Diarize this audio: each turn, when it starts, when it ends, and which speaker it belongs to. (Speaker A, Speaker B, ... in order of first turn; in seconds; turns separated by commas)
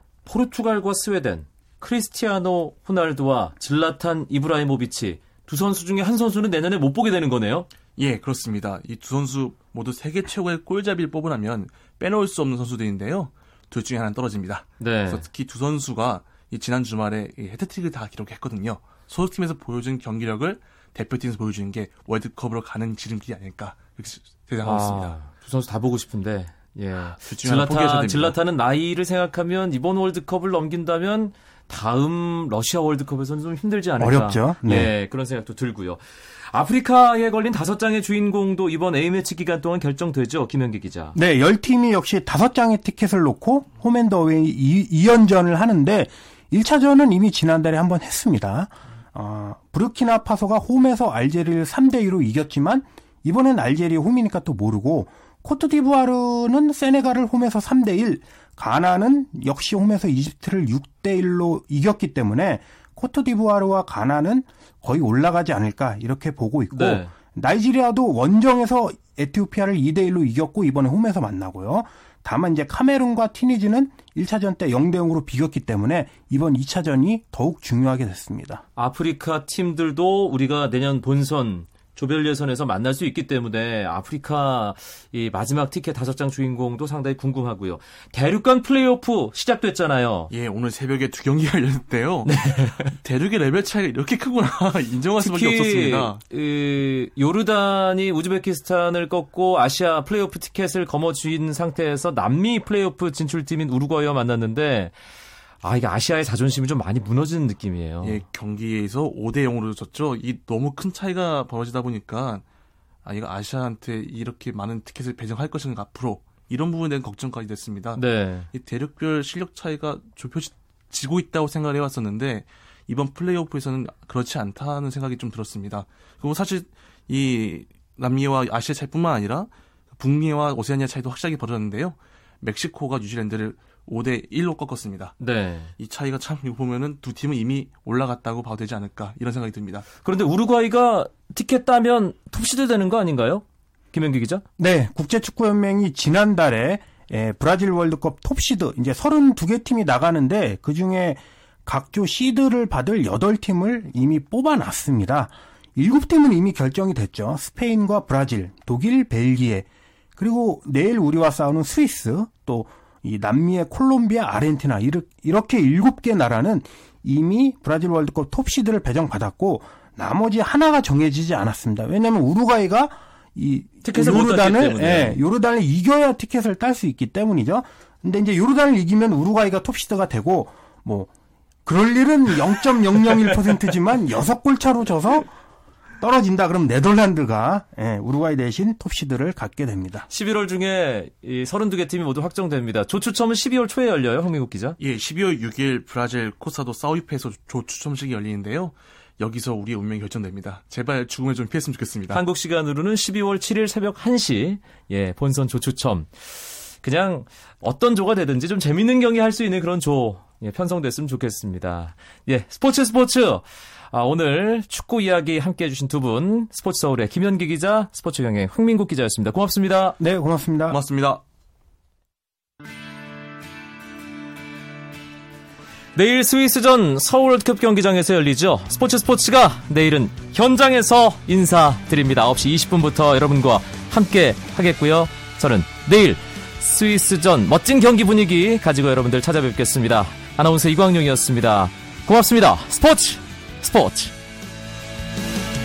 Speaker A: 0.2-7.7, Speaker B: 8.0-25.1, Speaker A: 14.8-15.2, Speaker A: 24.6-41.2, Speaker B: 27.2-28.4, Speaker C: 34.0-34.9, Speaker C: 41.1-78.6, Speaker A: 66.7-67.1, Speaker A: 78.8-90.3, Speaker B: 90.3-96.2, Speaker A: 92.2-92.9, Speaker A: 95.2-104.9, Speaker A: 105.6-108.2, Speaker B: 108.0-112.4, Speaker B: 113.0-135.2, Speaker A: 118.0-118.5, Speaker A: 135.2-135.7, Speaker B: 135.8-139.9, Speaker A: 140.0-144.4, Speaker C: 144.6-181.1, Speaker A: 173.8-175.2, Speaker C: 181.6-185.3, Speaker C: 186.0-190.1, Speaker A: 190.1-194.8, Speaker B: 194.8-202.2, Speaker A: 202.1-220.0, Speaker C: 220.0-220.8, Speaker B: 220.7-221.2, Speaker A: 225.9-244.1